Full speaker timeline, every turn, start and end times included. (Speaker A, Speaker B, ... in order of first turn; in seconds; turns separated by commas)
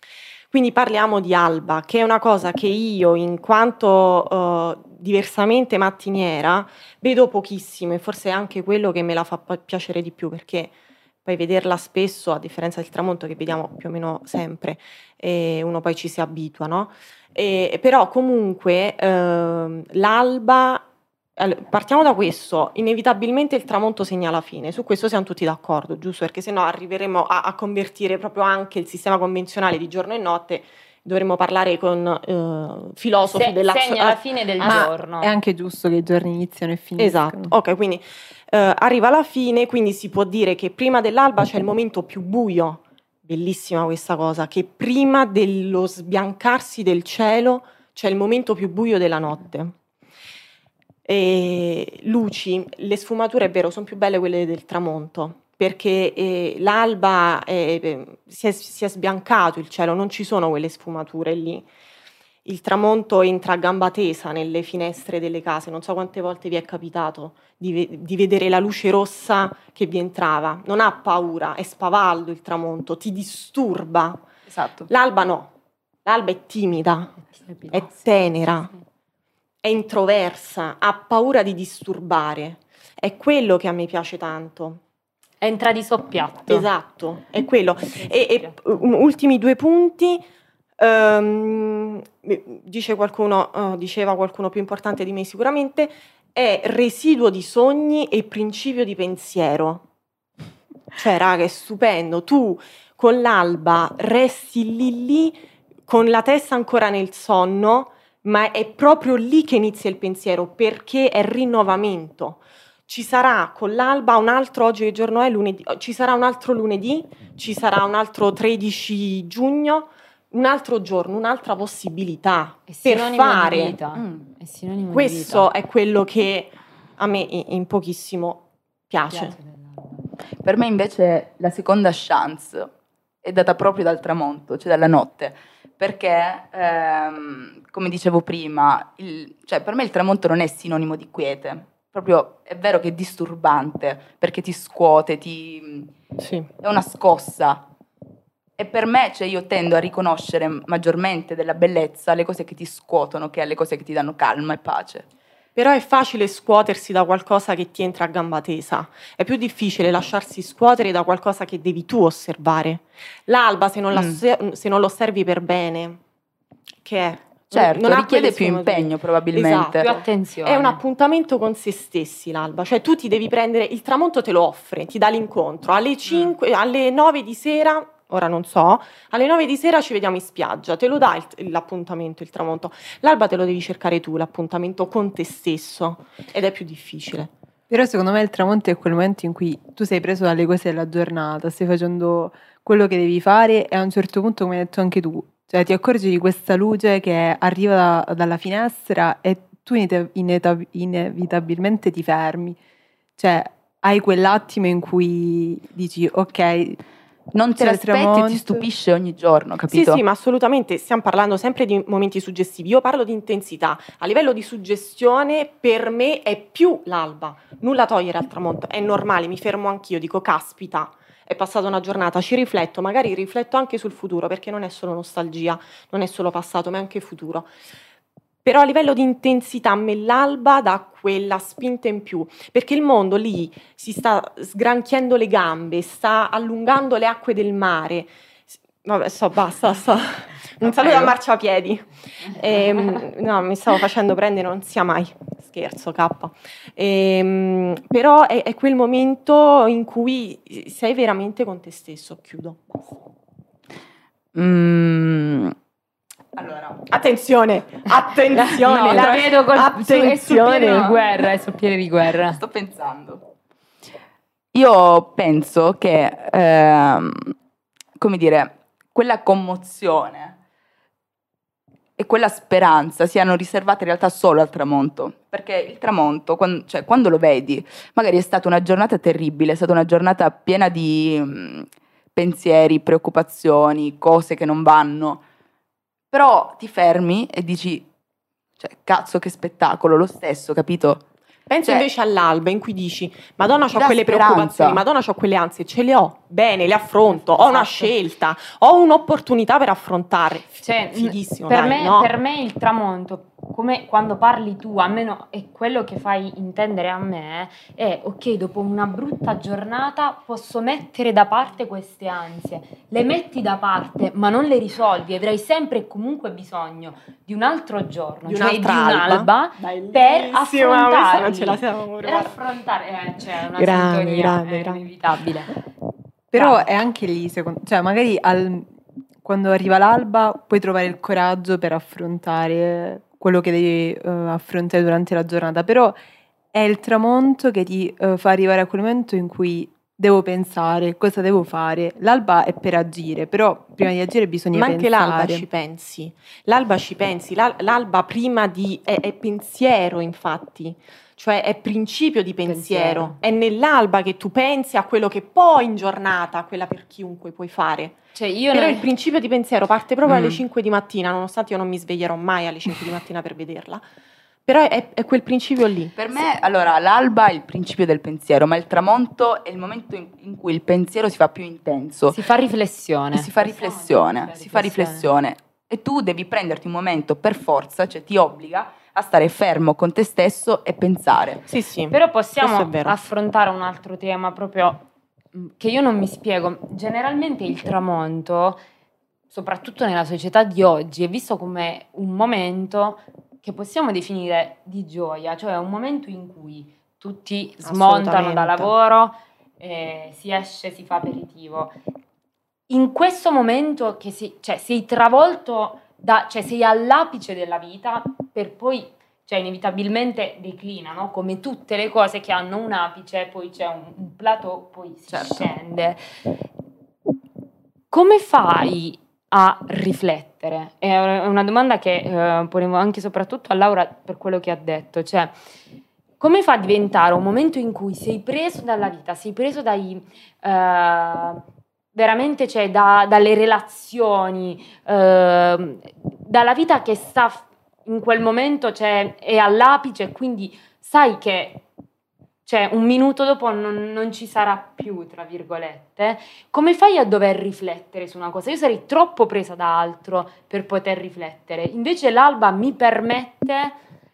Speaker A: 0.5-34.9, Speaker B: 33.2-35.3, Speaker C: 34.6-37.5, Speaker A: 37.0-49.7, Speaker A: 51.0-61.7, Speaker A: 62.4-74.2, Speaker D: 74.5-74.9, Speaker A: 74.9-75.5, Speaker A: 76.0-77.2, Speaker B: 77.3-77.9, Speaker A: 77.7-78.7, Speaker A: 79.6-84.8, Speaker B: 85.4-86.7, Speaker A: 86.5-90.2, Speaker B: 88.0-88.5, Speaker A: 90.8-99.8, Speaker A: 100.9-123.8, Speaker B: 122.7-125.5, Speaker D: 124.0-124.2, Speaker A: 124.9-129.4, Speaker B: 129.1-129.7, Speaker D: 130.4-132.7, Speaker D: 133.2-145.9, Speaker A: 146.2-146.5, Speaker D: 146.6-147.6, Speaker D: 148.6-155.0, Speaker A: 155.5-166.0, Speaker D: 163.9-164.2, Speaker A: 166.8-187.3, Speaker D: 167.5-169.9, Speaker B: 169.8-170.8, Speaker C: 187.7-202.6, Speaker C: 203.2-206.8, Speaker D: 207.3-210.0, Speaker C: 207.6-208.6, Speaker A: 209.7-227.5, Speaker A: 228.4-252.8, Speaker D: 240.6-241.2, Speaker D: 254.3-255.5, Speaker D: 256.4-256.9, Speaker A: 256.9-260.9, Speaker D: 258.3-259.4, Speaker B: 258.8-262.4, Speaker D: 262.3-263.2, Speaker D: 264.5-267.4, Speaker D: 268.0-270.4, Speaker D: 272.0-285.2, Speaker D: 286.1-287.9, Speaker D: 288.6-291.0, Speaker A: 291.5-302.1, Speaker D: 293.7-294.8, Speaker B: 297.2-297.9, Speaker B: 300.6-325.5, Speaker A: 318.2-322.4, Speaker A: 323.6-324.8, Speaker C: 326.3-328.7, Speaker B: 326.3-326.7, Speaker C: 329.2-336.0, Speaker C: 336.5-345.4, Speaker A: 344.5-358.0, Speaker B: 352.4-353.2, Speaker B: 358.1-358.9, Speaker A: 358.5-363.8, Speaker D: 360.1-360.4, Speaker A: 364.4-365.9, Speaker D: 365.9-372.2, Speaker B: 372.1-375.1, Speaker D: 373.1-381.4, Speaker A: 381.5-382.9, Speaker B: 381.9-388.6, Speaker B: 389.3-401.8, Speaker A: 397.6-398.7, Speaker B: 402.7-416.0, Speaker D: 415.1-415.5, Speaker B: 417.9-425.3, Speaker B: 426.2-431.4, Speaker B: 431.9-441.6, Speaker B: 442.4-453.8